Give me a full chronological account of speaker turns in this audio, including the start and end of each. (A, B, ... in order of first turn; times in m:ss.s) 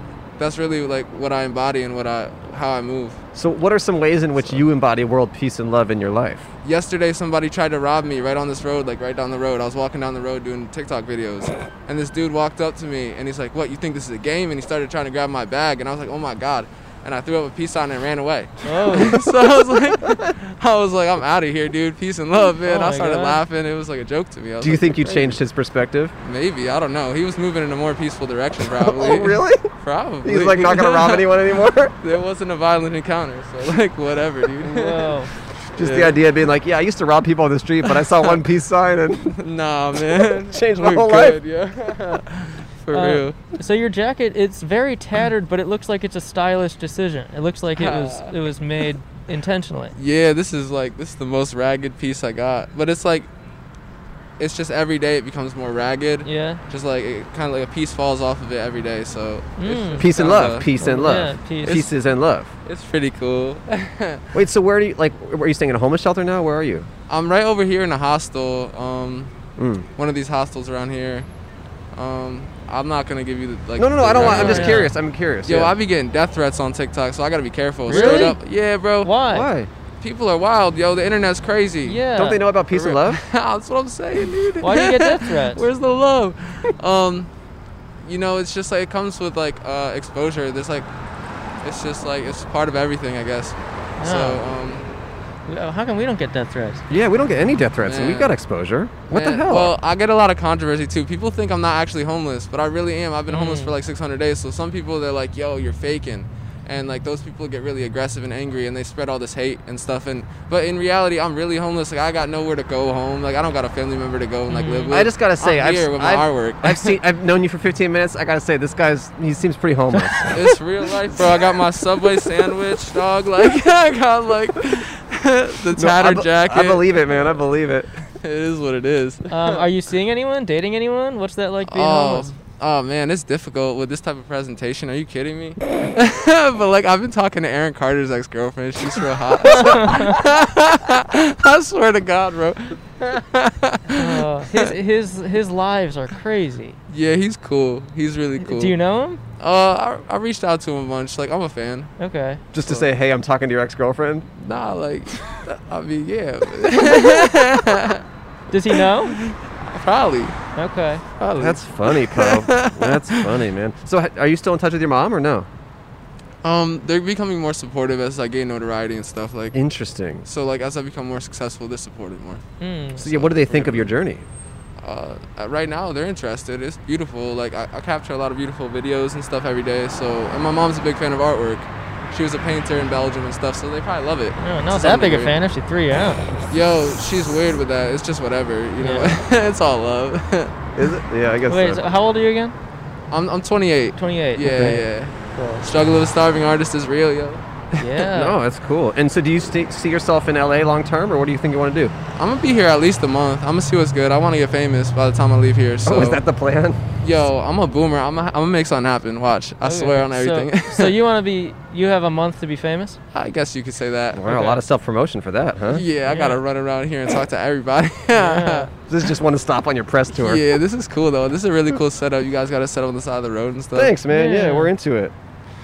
0:00.4-0:03.2 A
0:03.3-0:06.5 B
0:06.6-0:25.4 A
0:18.6-0:19.2 C
0:22.6-0:23.4 C
0:24.6-0:26.1 B
0:26.2-0:31.3 A
0:28.7-0:29.7 B
0:30.2-0:31.9 B
0:32.0-0:36.2 A
0:34.6-0:35.3 C
0:35.7-0:39.4 B
0:39.3-0:43.4 A
0:39.9-0:41.4 B
0:42.9-0:49.9 C
0:47.7-0:48.4 A
0:50.0-0:53.3 A
0:54.4-1:00.7 A
0:56.2-0:56.6 C
0:59.6-1:00.2 C
1:00.0-1:02.5 B
1:00.8-1:01.9 C
1:01.6-1:01.9 A
1:02.6-1:04.2 A
1:04.3-1:06.9 B
1:07.1-1:09.3 A
1:09.6-1:09.8 B
1:10.0-1:11.3 A
1:11.9-1:14.9 A
1:13.8-1:15.7 B
1:14.2-1:14.9 C
1:15.4-1:19.1 A
1:17.9-1:18.3 B
1:17.9-1:18.4 C
1:19.0-1:19.5 C
1:19.3-1:19.7 B
1:20.0-1:22.0 A
1:21.8-1:22.4 C
1:22.1-1:23.2 B
1:22.7-1:27.3 A
1:24.6-1:25.6 C
1:28.0-1:30.9 A
1:31.6-1:34.9 A
1:34.0-1:34.4 C
1:35.5-1:36.8 C
1:36.9-1:39.7 B
1:37.8-1:38.3 A
1:39.1-1:57.0 A
1:43.3-1:43.7 C
1:54.5-1:54.9 C
1:54.9-2:00.4 B
2:00.3-2:07.3 A
2:05.7-2:07.9 B
2:08.2-2:09.7 A
2:09.3-2:12.3 C
2:11.7-2:24.7 A
2:19.5-2:20.2 C
2:23.9-2:26.8 C
2:26.9-2:28.7 A
2:28.4-2:29.2 C
2:29.4-2:31.9 A
2:32.0-2:32.4 C
2:32.5-2:34.3 B
2:34.4-2:38.0 A
2:38.5-2:39.1 C
2:38.7-2:40.4 A
2:40.5-2:41.0 C
2:41.2-2:43.3 A
2:41.4-2:45.5 B
2:46.4-2:49.6 A
2:49.5-2:50.2 B
2:50.2-2:52.4 A
2:52.6-2:53.0 C
2:53.0-2:54.2 B
2:53.0-2:53.9 A
2:54.8-3:05.3 A
3:04.4-3:06.3 C
3:06.5-3:10.5 A
3:08.8-3:09.2 C
3:10.8-3:11.8 B
3:11.5-3:12.5 C
3:13.1-3:17.8 A
3:14.0-3:15.6 C
3:14.5-3:14.8 B
3:17.8-3:18.4 C
3:18.1-3:21.9 B
3:22.2-3:26.2 A
3:25.8-3:26.8 B
3:27.0-3:31.0 A
3:29.6-3:33.0 C
3:33.1-3:34.6 A
3:34.1-3:35.8 B
3:35.7-3:38.7 A
3:36.1-3:36.4 C
3:38.1-3:38.7 C
3:38.9-3:40.5 B
3:40.2-3:43.9 A
3:43.7-3:45.1 B
3:44.1-3:44.7 C